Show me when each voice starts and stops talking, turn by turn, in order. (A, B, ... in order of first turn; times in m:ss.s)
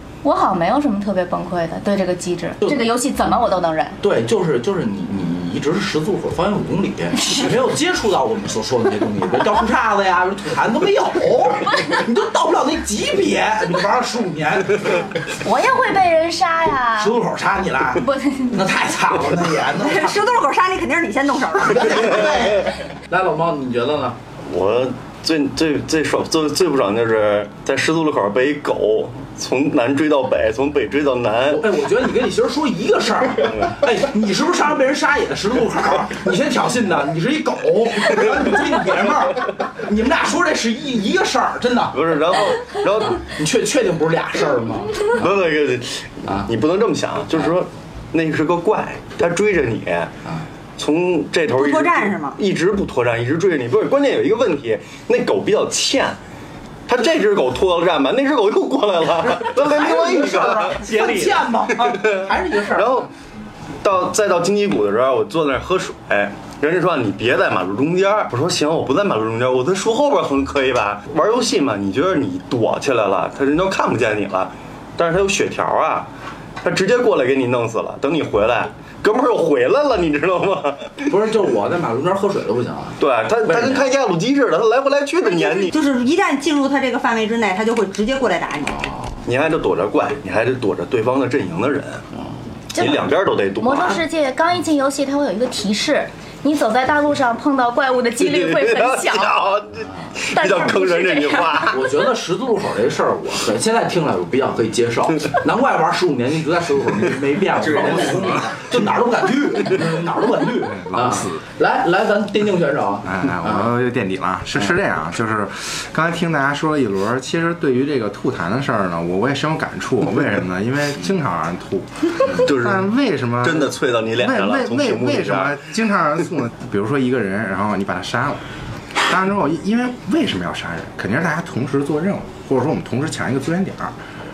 0:00.2-0:04.0 A
0:04.0-0:15.2 B
0:15.4-0:17.2 A
0:17.0-0:20.2 B
0:18.0-0:18.7 A
0:19.8-0:22.2 C
0:21.6-0:24.2 B
0:24.5-0:31.7 D
0:31.5-0:42.0 B
0:33.4-0:33.8 D
0:41.9-0:43.3 D
0:43.2-0:45.4 B
0:45.1-0:50.1 D
0:50.8-0:56.2 D
0:51.5-0:52.4 C
0:56.9-1:01.2 D
0:59.4-1:03.0 B
1:01.9-1:03.1 D
1:03.8-1:16.1 D
1:16.6-1:21.0 D
1:21.1-1:23.8 B
1:23.0-1:25.7 D
1:25.6-1:28.9 C
1:28.6-1:29.2 B
1:29.2-1:32.0 D
1:32.7-1:39.4 A
1:32.7-1:34.0 D
1:38.2-1:41.8 D
1:39.8-1:40.1 B
1:40.3-1:41.6 A
1:41.7-1:53.7 B
1:50.7-1:51.4 E
1:53.0-2:08.4 E
2:02.4-2:02.9 D
2:03.4-2:05.6 D
2:09.0-2:13.9 E